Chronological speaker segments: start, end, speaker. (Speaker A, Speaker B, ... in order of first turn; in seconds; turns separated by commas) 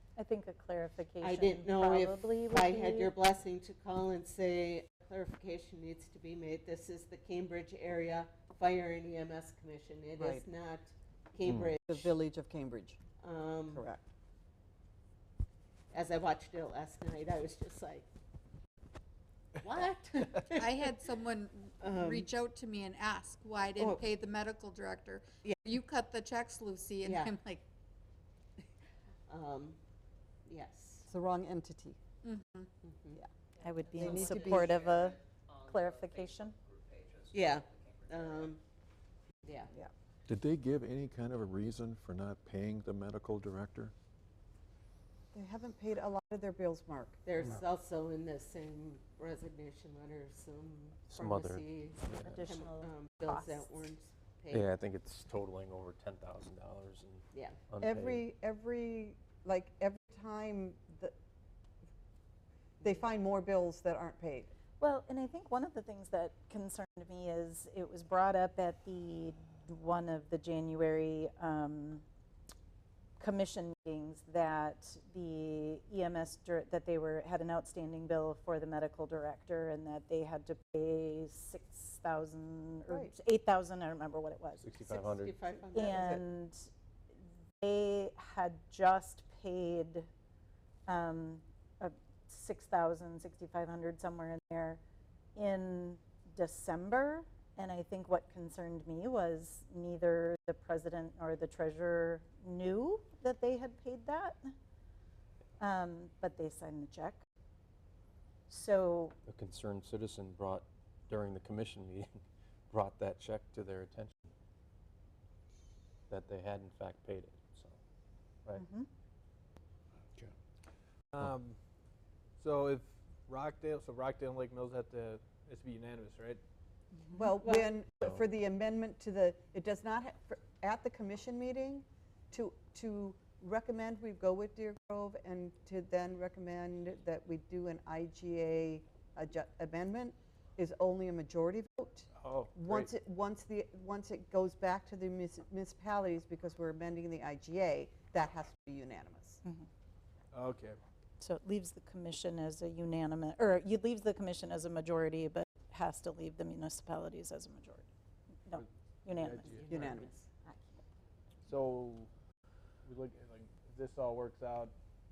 Speaker A: 0.2-3.1, Speaker B: 1.2-12.2, Speaker C: 10.2-10.5, Speaker D: 11.5-11.8, Speaker C: 11.8-13.0, Speaker B: 13.2-13.9, Speaker C: 13.7-14.0, Speaker B: 15.9-18.1, Speaker B: 19.6-20.7, Speaker E: 20.4-27.6, Speaker B: 21.8-22.3, Speaker B: 23.8-24.0, Speaker B: 27.0-27.4, Speaker B: 29.3-29.8, Speaker B: 30.5-31.1, Speaker C: 31.1-32.0, Speaker E: 32.2-32.7, Speaker B: 32.8-33.2, Speaker A: 33.6-36.5, Speaker C: 34.0-34.9, Speaker B: 37.3-38.6, Speaker B: 39.4-39.7, Speaker F: 40.3-43.9, Speaker C: 45.3-47.2, Speaker B: 47.2-54.7, Speaker D: 51.1-52.5, Speaker A: 52.1-53.7, Speaker D: 54.5-58.2, Speaker B: 57.3-57.6, Speaker C: 57.8-61.1, Speaker C: 62.8-64.5, Speaker A: 64.8-72.0, Speaker A: 73.2-84.7, Speaker C: 82.9-83.2, Speaker D: 84.6-85.3, Speaker B: 84.8-86.2, Speaker C: 85.7-86.2, Speaker A: 85.7-86.7, Speaker A: 87.6-90.1, Speaker A: 90.9-94.8, Speaker A: 95.4-104.5, Speaker A: 105.6-107.2, Speaker A: 108.5-109.2, Speaker D: 109.3-114.3, Speaker D: 116.1-117.8, Speaker A: 118.6-118.9, Speaker G: 121.1-121.6, Speaker G: 122.4-126.4, Speaker C: 127.1-149.4, Speaker B: 127.4-127.7, Speaker G: 142.2-142.9, Speaker G: 150.3-150.8, Speaker A: 151.2-157.9, Speaker A: 158.5-159.6, Speaker G: 158.6-160.1, Speaker B: 159.5-160.2, Speaker C: 159.7-160.1, Speaker G: 161.4-162.1, Speaker G: 162.8-164.8